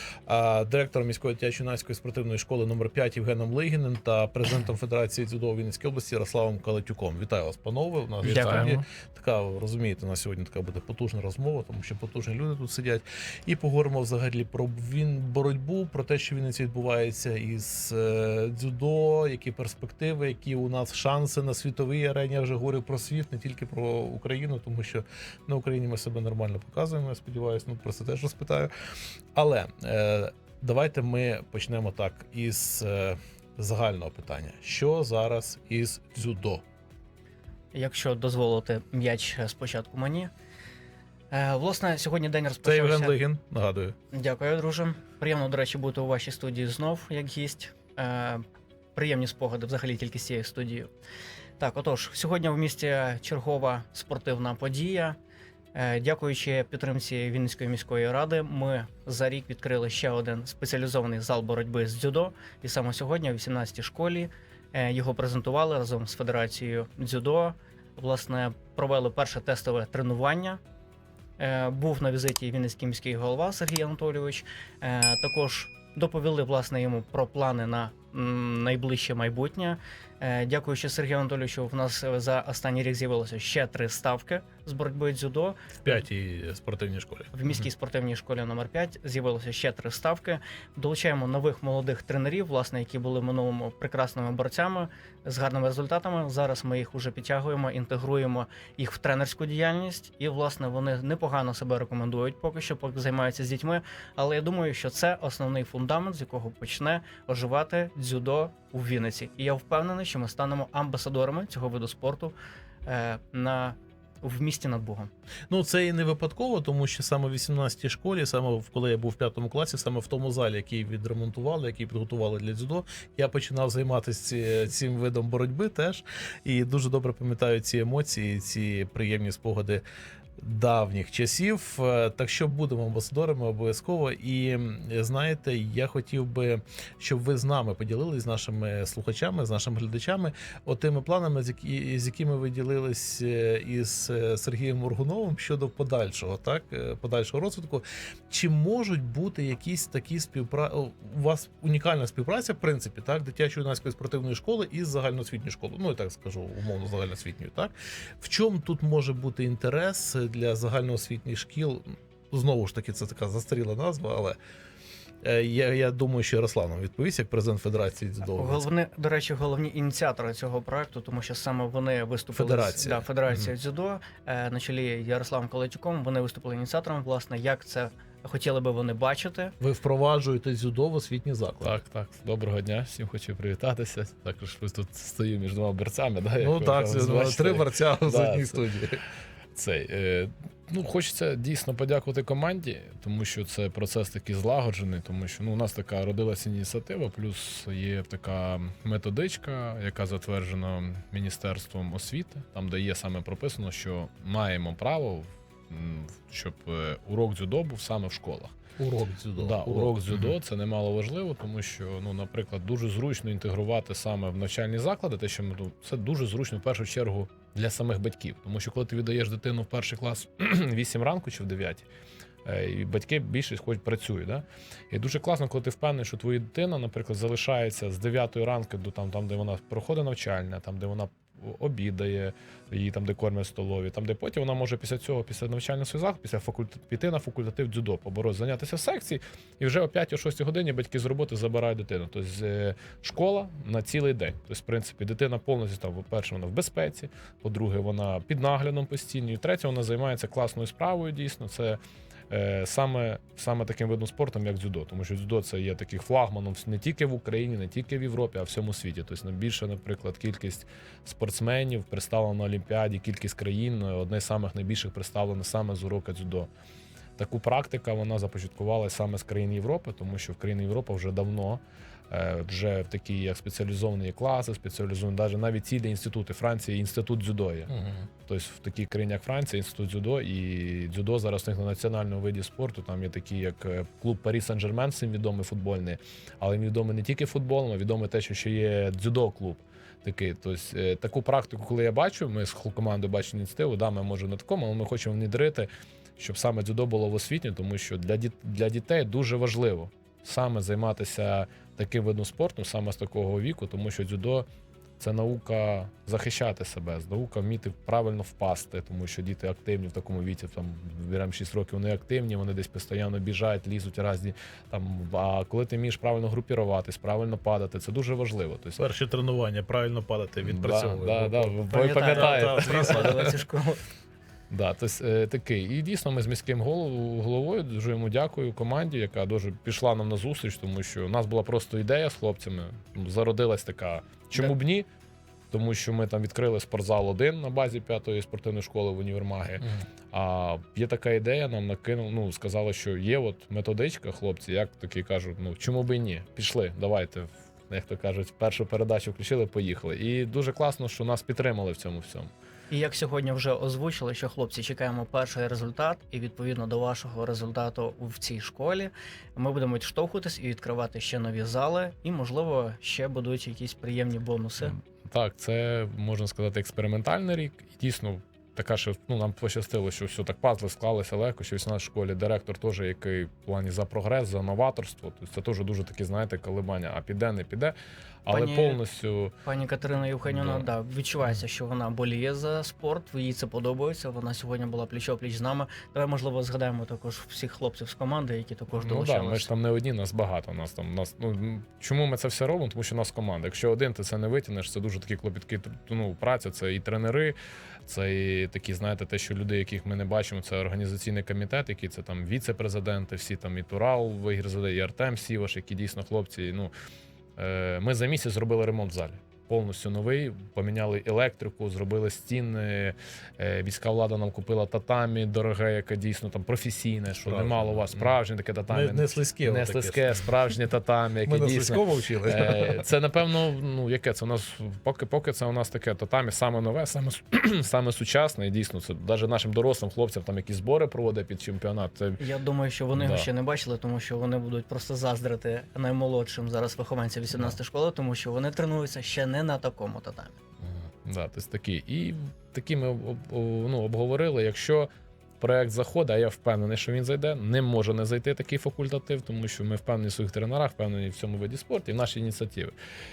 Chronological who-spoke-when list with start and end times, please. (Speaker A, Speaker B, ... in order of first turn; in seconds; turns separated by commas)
Speaker A: 0.3-28.7, Speaker B: 8.2-8.8, Speaker A: 29.4-36.6, Speaker B: 37.7-40.3, Speaker B: 41.3-43.2, Speaker A: 42.6-44.0, Speaker B: 44.1-48.4, Speaker B: 49.0-50.9, Speaker B: 51.6-55.2, Speaker B: 55.7-70.6, Speaker B: 71.4-86.0, Speaker A: 85.8-87.3, Speaker B: 87.3-112.3, Speaker B: 112.9-115.1, Speaker A: 115.5-129.8, Speaker A: 130.4-164.4, Speaker A: 165.2-168.7, Speaker B: 168.3-179.5, Speaker A: 172.3-173.1, Speaker A: 179.6-181.8, Speaker C: 181.6-188.6, Speaker A: 186.4-189.0, Speaker C: 189.6-208.6, Speaker A: 208.8-210.3, Speaker C: 209.4-221.9, Speaker C: 222.4-251.8, Speaker C: 252.3-266.5, Speaker C: 267.2-277.7, Speaker A: 277.7-278.1, Speaker C: 278.3-304.5, Speaker C: 305.0-318.8, Speaker A: 318.8-323.4, Speaker C: 320.4-323.1, Speaker B: 321.7-323.8, Speaker C: 324.5-334.9, Speaker C: 335.5-352.3, Speaker B: 352.7-364.7, Speaker C: 364.6-379.3, Speaker B: 378.3-378.8, Speaker B: 379.4-389.5, Speaker C: 380.3-380.7, Speaker C: 388.7-406.7, Speaker C: 407.4-432.2, Speaker A: 417.2-418.2, Speaker A: 418.7-420.3, Speaker A: 421.2-422.8, Speaker B: 432.2-440.4, Speaker C: 432.9-433.3, Speaker C: 441.0-452.8